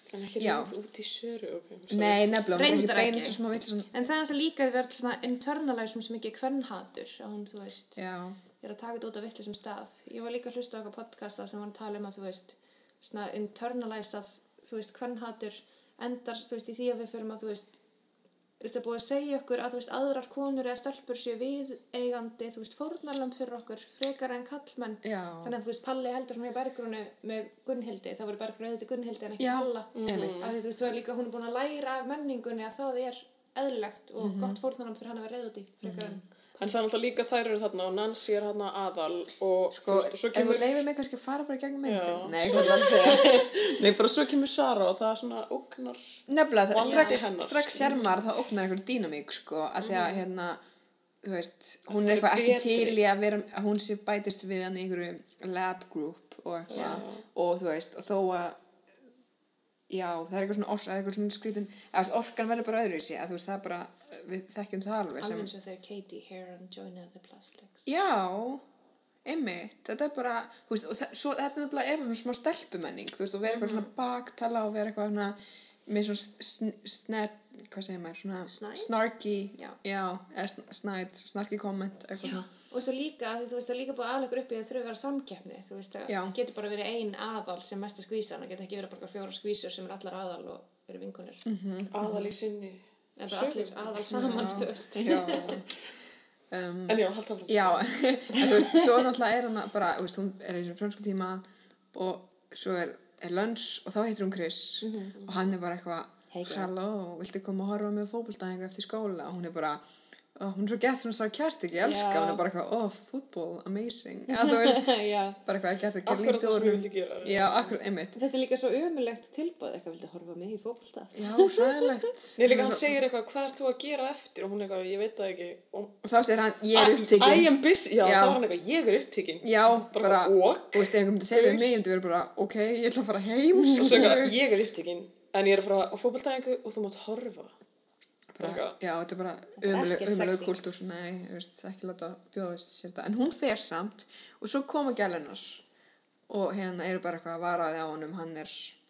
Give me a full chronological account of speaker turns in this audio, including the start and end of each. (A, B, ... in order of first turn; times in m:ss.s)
0:00.1-0:02.7 A
0:00.4-0:00.7 B
0:01.9-0:03.9 B
0:02.5-0:03.4 C
0:03.9-0:08.0 C
0:08.0-0:08.4 B
0:08.6-0:17.7 C
0:18.6-0:36.7 C
0:25.0-0:25.6 B
0:29.4-0:30.5 B
0:29.9-0:30.5 A
0:34.2-0:34.6 B
0:35.8-0:36.2 B
0:36.6-0:40.8 A
0:39.7-0:43.5 B
0:41.8-0:46.2 A
0:46.3-0:50.6 B
0:46.7-0:48.0 A
0:46.8-0:47.2 C
0:49.8-0:50.2 C
0:51.2-0:58.6 B
0:51.9-0:53.0 A
0:56.7-0:57.2 A
0:59.9-1:05.5 B
1:05.2-1:07.8 C
1:07.8-1:08.6 B
1:09.2-1:22.4 B
1:18.5-1:18.9 C
1:22.2-1:31.4 C
1:26.1-1:26.3 B
1:31.4-1:32.3 B
1:31.9-1:34.1 A
1:33.2-1:35.6 C
1:34.1-1:35.7 B
1:35.4-1:35.7 A
1:36.5-1:49.8 B
1:36.9-1:38.9 A
1:44.8-1:45.2 C
1:46.3-1:46.7 C
1:50.3-1:58.2 B
1:51.8-1:52.4 C
1:54.3-1:55.4 C
1:56.0-1:57.8 A
1:58.1-2:01.9 C
2:01.1-2:03.0 B
2:02.4-2:06.0 A
2:06.0-2:08.4 B
2:06.7-2:11.8 A
2:09.4-2:14.4 B
2:13.7-2:17.5 A
2:18.3-2:25.6 B
2:18.4-2:18.7 A
2:19.6-2:20.6 C
2:26.3-2:28.8 B